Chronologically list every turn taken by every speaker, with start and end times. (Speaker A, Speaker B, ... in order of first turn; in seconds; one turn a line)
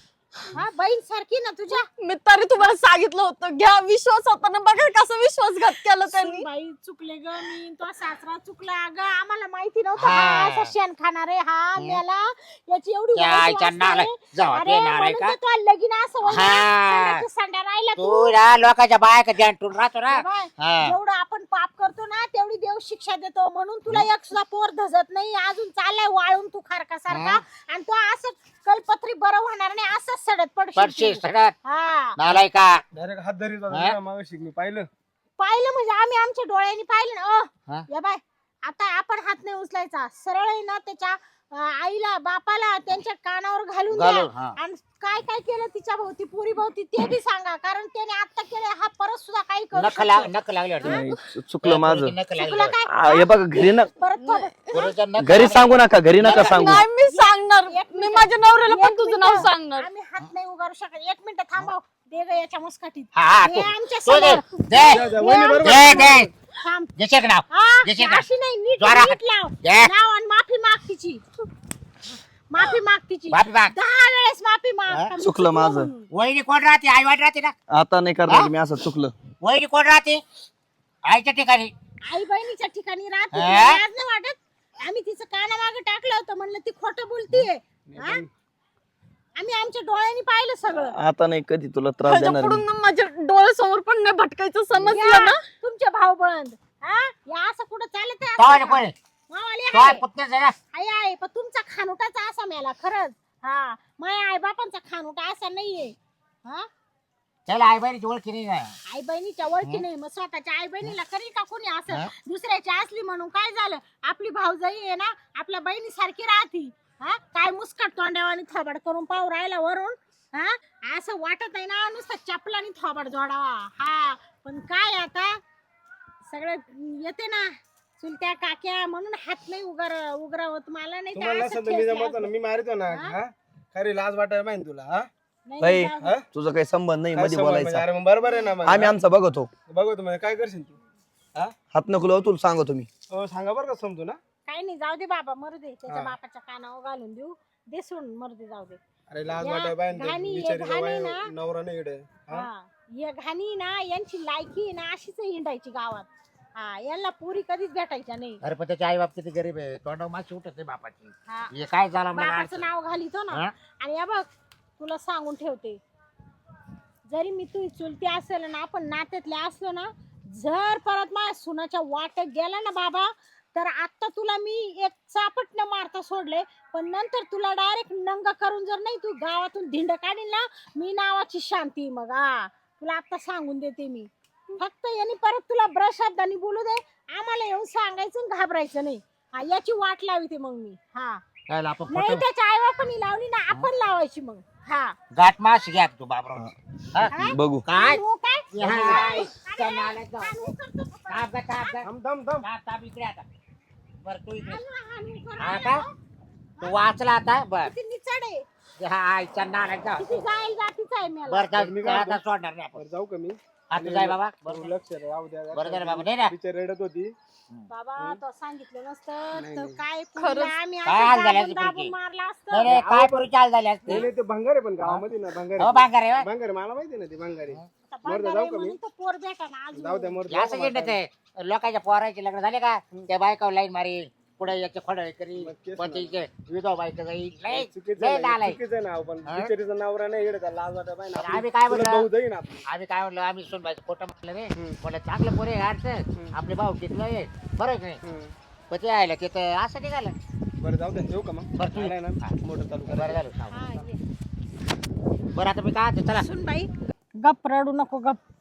Speaker A: 0.5-1.9
Speaker B: 2.0-6.5
Speaker A: 6.0-18.4
Speaker C: 10.0-10.7
Speaker C: 13.1-15.3
Speaker C: 16.2-17.2
Speaker C: 18.0-20.9
Speaker A: 20.1-32.2
Speaker C: 27.1-27.4
Speaker C: 30.8-31.5
Speaker C: 32.2-32.8
Speaker D: 33.0-34.9
Speaker C: 33.7-34.0
Speaker A: 35.4-50.3
Speaker C: 43.9-44.5
Speaker C: 49.7-51.0
Speaker B: 50.8-51.2
Speaker E: 50.8-52.1
Speaker C: 51.6-52.8
Speaker A: 52.3-54.5
Speaker E: 52.9-53.9
Speaker B: 54.2-54.9
Speaker C: 54.7-56.8
Speaker E: 55.2-56.9
Speaker B: 56.4-59.9
Speaker A: 57.0-66.9
Speaker C: 63.1-66.3
Speaker D: 64.8-66.3
Speaker C: 67.0-69.9
Speaker A: 67.5-71.2
Speaker A: 72.5-76.0
Speaker C: 73.3-73.7
Speaker E: 75.2-75.9
Speaker C: 76.1-77.5
Speaker E: 77.7-79.1
Speaker C: 79.4-80.2
Speaker C: 81.0-81.7
Speaker A: 82.1-88.2
Speaker C: 83.3-83.8
Speaker D: 88.0-88.2
Speaker A: 89.4-91.0
Speaker E: 90.9-92.6
Speaker B: 92.0-95.4
Speaker A: 94.7-100.0
Speaker C: 98.4-98.9
Speaker C: 99.7-100.5
Speaker A: 100.7-106.7
Speaker C: 107.5-108.8
Speaker A: 108.9-125.4
Speaker A: 126.3-132.3
Speaker D: 131.1-135.1
Speaker A: 132.9-133.1
Speaker A: 135.5-136.1
Speaker E: 135.6-137.9
Speaker D: 137.1-138.9
Speaker E: 138.6-139.5
Speaker D: 139.7-140.8
Speaker E: 141.7-142.9
Speaker D: 143.1-144.2
Speaker A: 144.5-148.8
Speaker D: 145.9-146.1
Speaker D: 149.1-152.5
Speaker A: 149.4-151.3
Speaker A: 152.3-158.4
Speaker C: 158.4-162.7
Speaker A: 162.1-164.2
Speaker A: 164.8-165.8
Speaker A: 167.1-191.2
Speaker C: 191.5-192.2
Speaker A: 191.9-195.0
Speaker C: 195.1-198.0
Speaker E: 197.1-197.6
Speaker A: 197.1-201.8
Speaker C: 198.5-200.5
Speaker C: 201.1-201.9
Speaker D: 201.8-202.5
Speaker C: 202.4-203.2
Speaker C: 204.0-204.6
Speaker A: 204.4-205.9
Speaker C: 205.4-205.8
Speaker A: 206.6-206.9
Speaker C: 206.6-207.7
Speaker A: 207.6-208.5
Speaker C: 208.8-210.2
Speaker A: 210.0-211.6
Speaker C: 211.2-212.8
Speaker D: 211.6-212.2
Speaker D: 212.8-217.1
Speaker C: 213.7-214.7
Speaker C: 215.5-216.3
Speaker A: 217.7-223.2
Speaker D: 219.3-219.8
Speaker B: 220.2-220.6
Speaker C: 220.8-221.9
Speaker C: 222.5-224.1
Speaker D: 222.7-223.0
Speaker D: 223.9-228.8
Speaker C: 224.8-226.3
Speaker A: 227.9-230.2
Speaker D: 229.7-231.0
Speaker C: 230.3-238.6
Speaker D: 235.4-236.2
Speaker D: 237.5-242.6
Speaker C: 239.2-239.5
Speaker C: 241.1-242.1
Speaker C: 242.7-248.0
Speaker D: 248.0-248.3
Speaker C: 248.7-250.2
Speaker D: 250.6-253.2
Speaker C: 251.6-252.3
Speaker C: 252.8-253.7
Speaker A: 253.5-254.0
Speaker C: 255.3-256.2
Speaker A: 256.1-258.2